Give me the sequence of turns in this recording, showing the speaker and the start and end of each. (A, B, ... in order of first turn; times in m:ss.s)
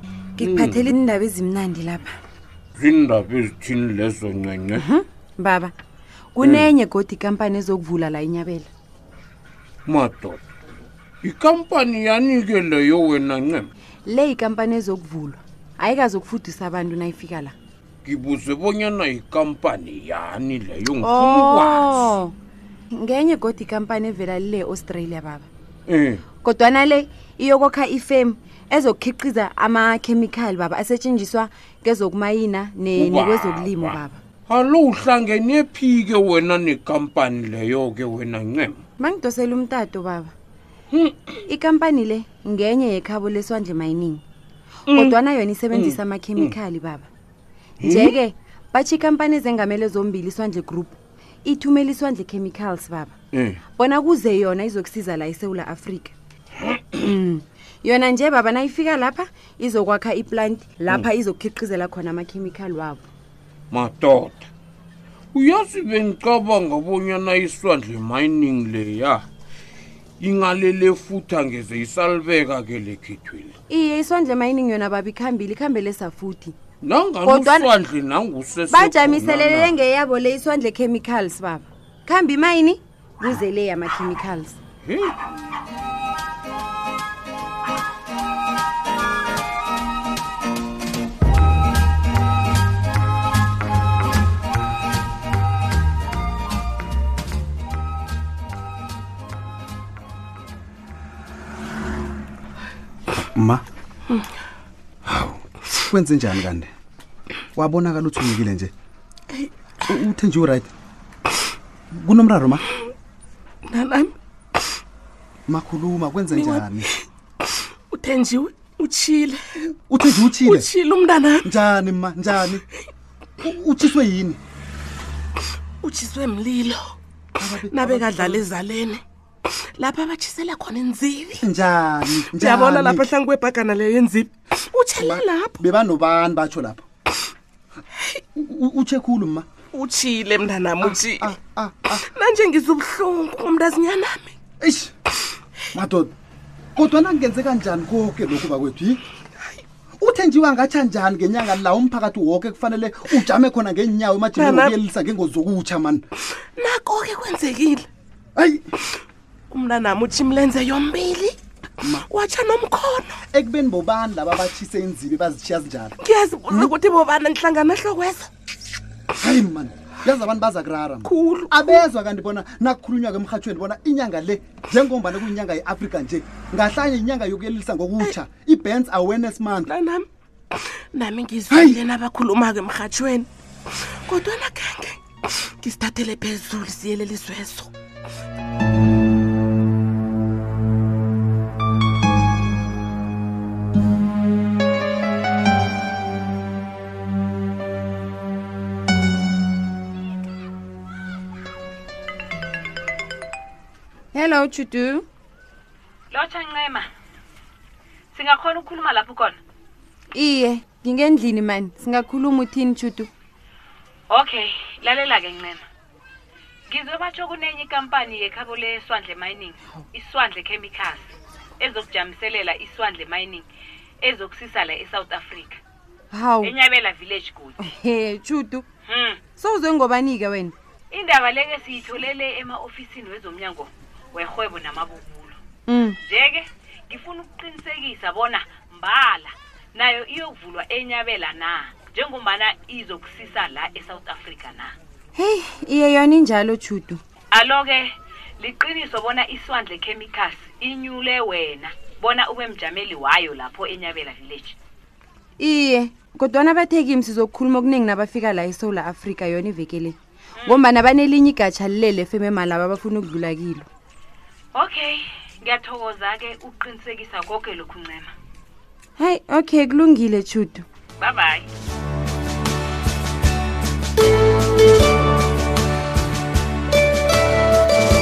0:00.4-0:02.1 A
0:00.4-0:00.9 B
0:02.8-0:04.8 B
0:04.8-0:05.7 A
0:06.4-0:08.7 A
0:06.4-0:06.7 B
0:09.9-0:10.4 B
0:11.2-0:13.7 B
0:14.1-0:17.6 A
0:18.0-0:22.1 B
0:21.0-0:22.4 A
0:22.9-0:25.5 A
0:25.9-0:26.2 B
0:26.4-0:34.2 A
0:32.9-0:38.8 B
0:39.0-0:40.3 A
0:40.9-0:41.4 B
0:41.5-0:44.2 A
0:44.9-0:45.2 B
0:44.9-0:47.1 A
0:45.7-0:46.6 B
0:47.8-0:48.2 B
0:47.8-0:53.2 A
0:53.3-0:53.6 B
0:53.7-0:56.2 A
0:57.0-1:03.1 A
1:03.7-1:04.5 B
1:05.3-1:09.3 B
1:10.2-1:13.6 B
1:13.7-1:16.6 A
1:16.8-1:19.8 B
1:17.2-1:17.7 A
1:18.7-1:24.6 A
1:24.8-1:25.2 B
1:43.2-1:43.6 C
1:45.7-1:46.7 C
1:47.6-1:48.7 C
1:49.8-1:50.7 C
1:51.9-1:52.6 C
1:53.7-1:54.1 D
1:55.5-1:56.9 C
1:56.3-1:56.7 D
1:57.9-1:59.6 D
1:59.9-2:00.7 C
2:00.4-2:01.5 D
2:01.4-2:02.6 C
2:03.4-2:04.4 C
2:05.8-2:07.0 D
2:07.4-2:08.5 C
2:07.6-2:11.4 D
2:11.4-2:13.1 C
2:12.3-2:15.6 D
2:14.9-2:16.8 C
2:18.4-2:19.5 C
2:19.7-2:21.4 D
2:20.8-2:22.0 C
2:22.0-2:24.3 D
2:24.6-2:24.9 C
2:25.7-2:26.1 C
2:26.8-2:29.0 C
2:30.0-2:36.0 C
2:34.3-2:34.8 D
2:36.6-2:37.9 D
2:38.4-2:38.6 C
2:39.5-2:41.4 D
2:41.8-2:42.1 C
2:41.9-2:43.2 D
2:43.3-2:46.7 C
2:46.0-2:48.3 D
2:49.2-2:59.7 C
2:51.0-2:51.9 D
2:59.7-3:00.1 D
3:00.9-3:03.3 D
3:01.5-3:01.8 C
3:04.1-3:05.0 D
3:05.6-3:07.7 D
3:24.1-3:25.1 A
3:26.1-3:26.9 E
3:28.1-3:29.4 E
3:30.1-3:33.1 A
3:34.1-3:35.6 E
3:36.7-3:43.5 E
3:44.0-3:45.6 E
3:46.1-3:46.6 A
3:46.4-3:47.6 E
3:47.6-3:48.7 A
3:48.9-3:49.2 E
3:49.3-3:50.6 A
3:50.9-3:55.4 E
3:55.7-3:56.0 A
3:56.0-4:04.7 E
4:05.2-4:07.0 A
4:07.3-4:14.6 E
4:15.4-4:20.0 A
4:20.5-4:23.7 A
4:24.6-4:28.1 E
4:29.0-4:30.7 A
4:31.0-4:31.5 E